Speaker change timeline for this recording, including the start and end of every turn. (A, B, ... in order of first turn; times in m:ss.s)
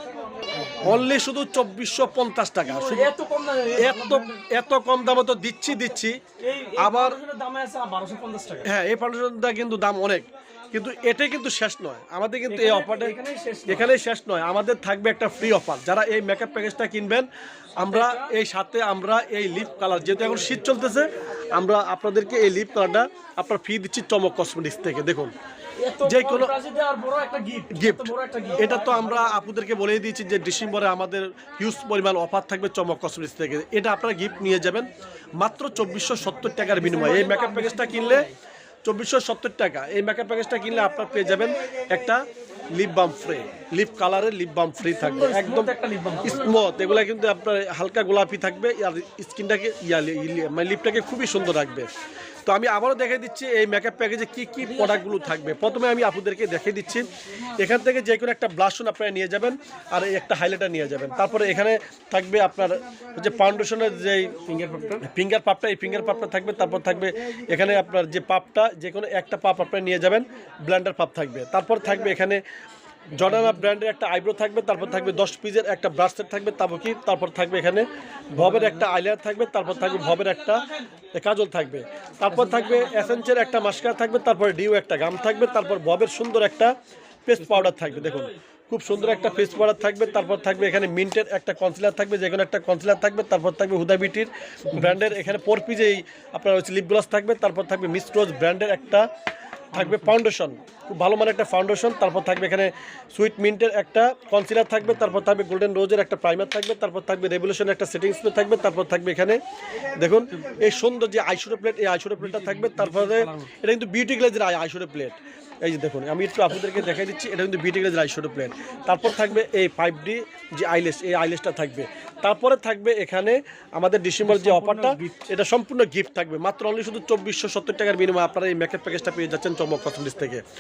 0:00.8-0:03.1 A
0:02.7-0:04.4 B
0:03.8-0:06.2 A
0:06.4-0:08.7 B
0:06.8-0:07.2 A
0:08.6-0:13.2 A
0:12.5-0:13.9 B
0:13.7-0:25.3 A
0:17.8-0:18.4 B
0:25.8-0:29.1 B
0:26.0-0:26.5 A
0:27.7-0:38.3 A
0:36.8-0:38.3 B
0:38.8-0:45.7 A
0:44.8-0:46.6 B
0:46.2-0:51.9 A
0:52.4-1:04.4 A
1:04.4-1:05.0 B
1:05.0-1:12.4 A
1:13.1-1:26.7 A
1:27.3-1:39.1 A
1:27.5-1:27.9 B
1:39.7-2:10.4 A
1:52.2-1:53.5 B
2:04.2-2:05.3 B